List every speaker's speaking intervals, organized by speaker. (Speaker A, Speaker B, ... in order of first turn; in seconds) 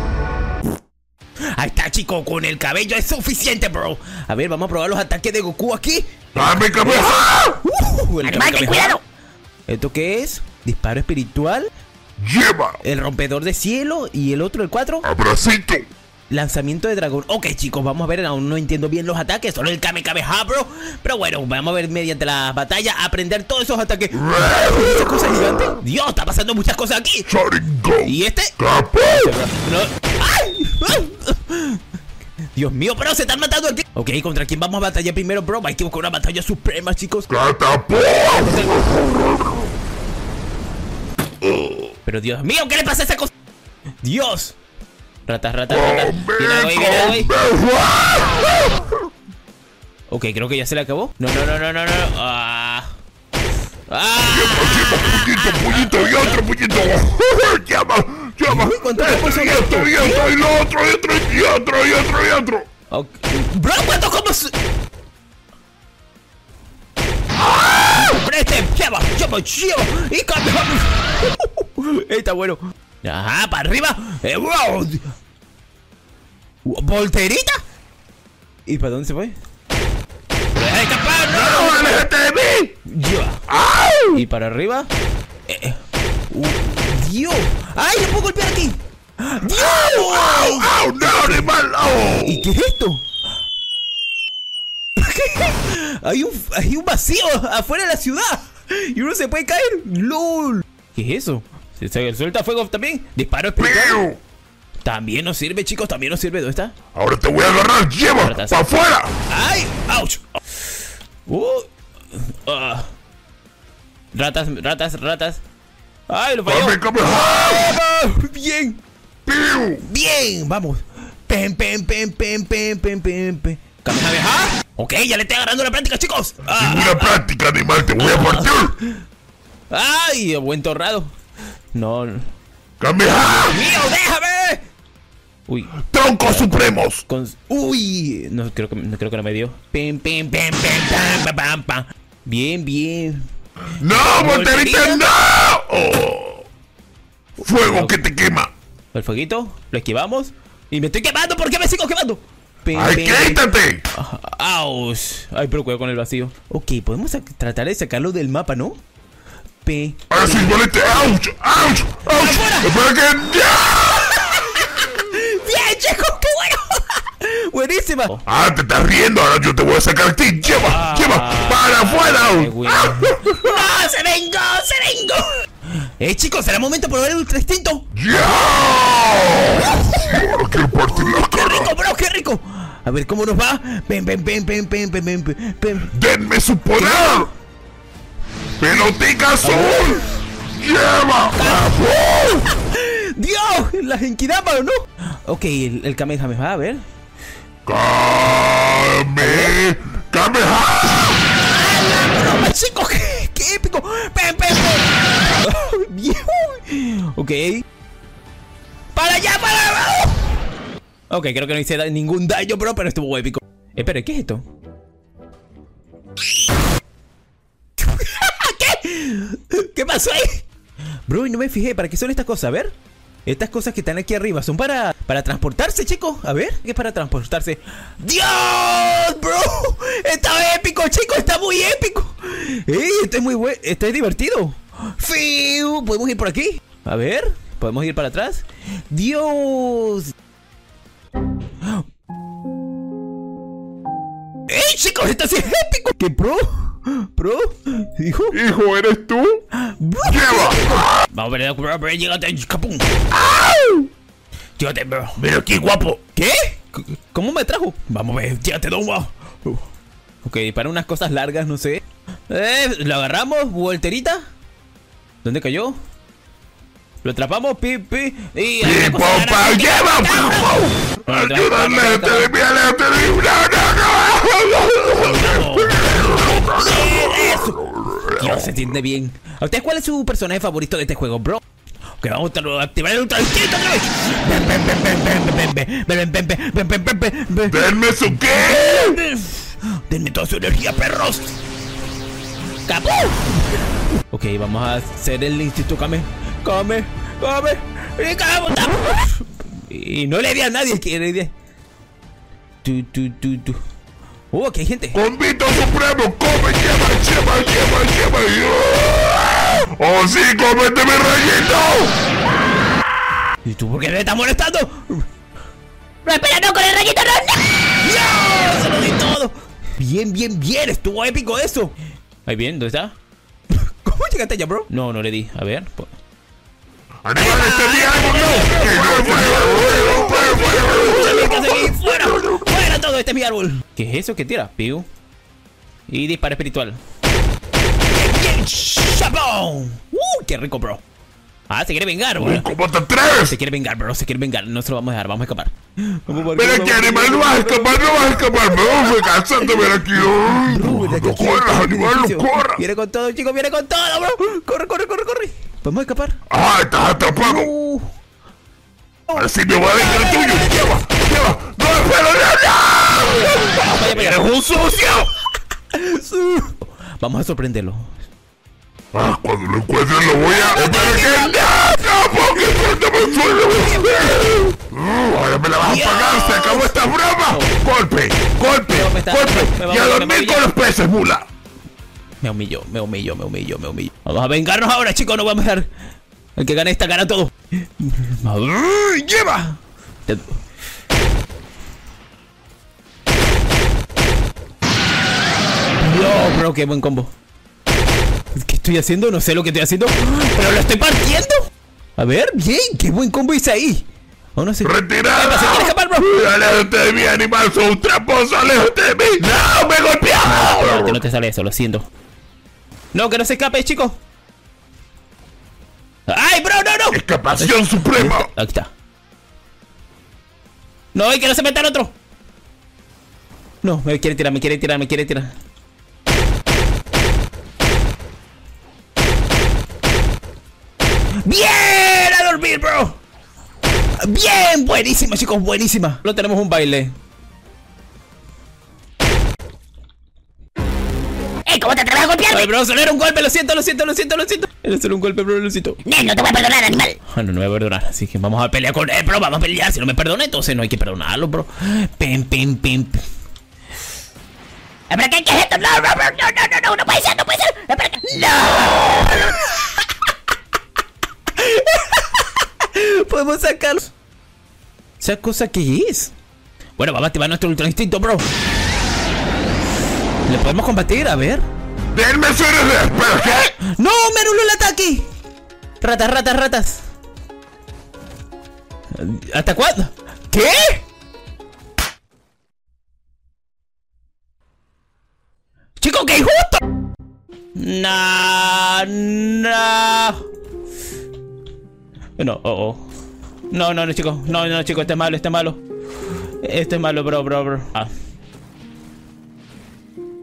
Speaker A: 1.6-9.0, 9.7-11.7, 12.8-15.1, 16.3-27.3, 28.1-31.8, 32.5-37.3, 38.1-39.0, 42.1-43.3, 44.0-44.6, 45.3-47.3, 50.1-52.9, 53.9-56.4, 58.5-60.4, 62.9-64.6, 67.9-75.1, 76.7-77.6, 78.7-79.3, 80.6-82.1, 82.9-83.4, 84.1-84.9, 85.5-91.5, 92.2-93.0, 95.0-104.0, 104.8-106.8, 108.2-108.6, 109.3-110.3, 111.3-112.9, 114.1-115.4, 116.1-118.8, 119.8-127.2, 127.9-129.0, 129.7-131.1, 131.7-132.3, 133.1-134.6, 135.5-143.3, 143.9-145.1, 147.4-148.0, 148.9-153.4, 153.9-158.8, 159.6-161.2, 162.0-162.8, 163.9-168.2, 170.5-178.5, 179.5-185.9, 186.8-187.3, 189.4-190.2, 191.3-196.8, 199.2-199.6, 201.2-207.6, 208.9-210.4, 211.1-214.4, 217.8-220.5, 221.1-222.7, 223.3-240.1, 244.5-248.4, 249.6-253.1, 254.6-255.2, 256.1-259.7, 260.2-264.2, 265.2-265.8, 267.0-272.3, 274.9-277.6, 278.1-281.4, 282.0-291.3, 292.7-301.3, 302.6-303.6, 304.3-305.0, 313.4-315.1, 316.1-317.1, 317.6-321.7, 322.3-322.9, 323.5-325.9, 327.2-334.9, 335.9-336.8, 337.9-340.8, 341.5-342.4, 343.3-356.2, 357.0-357.9, 359.1-360.8, 362.9-364.4, 365.7-368.0, 370.1-371.9, 373.1-374.3, 375.6-377.5, 378.6-380.5, 382.2-385.7, 386.4-390.4, 395.8-397.1, 398.3-401.5, 402.0-403.9, 404.4-406.1, 410.2-411.9, 412.9-414.0, 416.1-418.7, 420.9-421.9, 423.6-425.3, 431.2-433.0, 434.0-436.9, 442.3-445.8, 447.1-453.0, 455.1-459.9, 461.3-463.9, 465.0-466.1, 466.8-468.3, 470.3-471.4, 473.2-475.1, 475.8-476.8, 478.9-480.8, 485.8-486.6, 487.6-490.2, 492.2-492.9, 493.5-495.6, 496.4-497.9
Speaker B: 6.3-7.6, 12.2-12.8, 15.0-15.9, 24.1-25.8, 27.3-29.4, 37.3-39.6, 41.4-41.9, 45.7-48.9, 54.2-62.7, 67.4-68.1, 81.3-82.8, 83.5-84.2, 89.5-92.5, 103.6-104.2, 107.0-109.1, 116.5-117.7, 119.3-119.8, 126.6-128.8, 132.8-133.6, 135.9-137.0, 143.8-146.5, 147.4-148.5, 152.7-153.8, 160.1-164.4, 168.3-173.6, 177.9-181.7, 185.9-187.3, 188.6-190.0, 190.5-192.4, 197.7-201.2, 248.3-249.4, 250.0-250.9, 253.1-253.9, 255.2-256.0, 268.6-278.6, 287.5-289.0, 304.9-312.0, 327.1-332.5, 342.2-343.4, 346.3-352.6, 356.3-357.5, 359.1-365.1, 368.9-381.3, 404.6-411.0, 416.9-418.3, 471.9-473.5
Speaker C: 8.2-9.0, 316.1-317.4, 441.5-442.5, 445.9-447.0, 454.9-458.1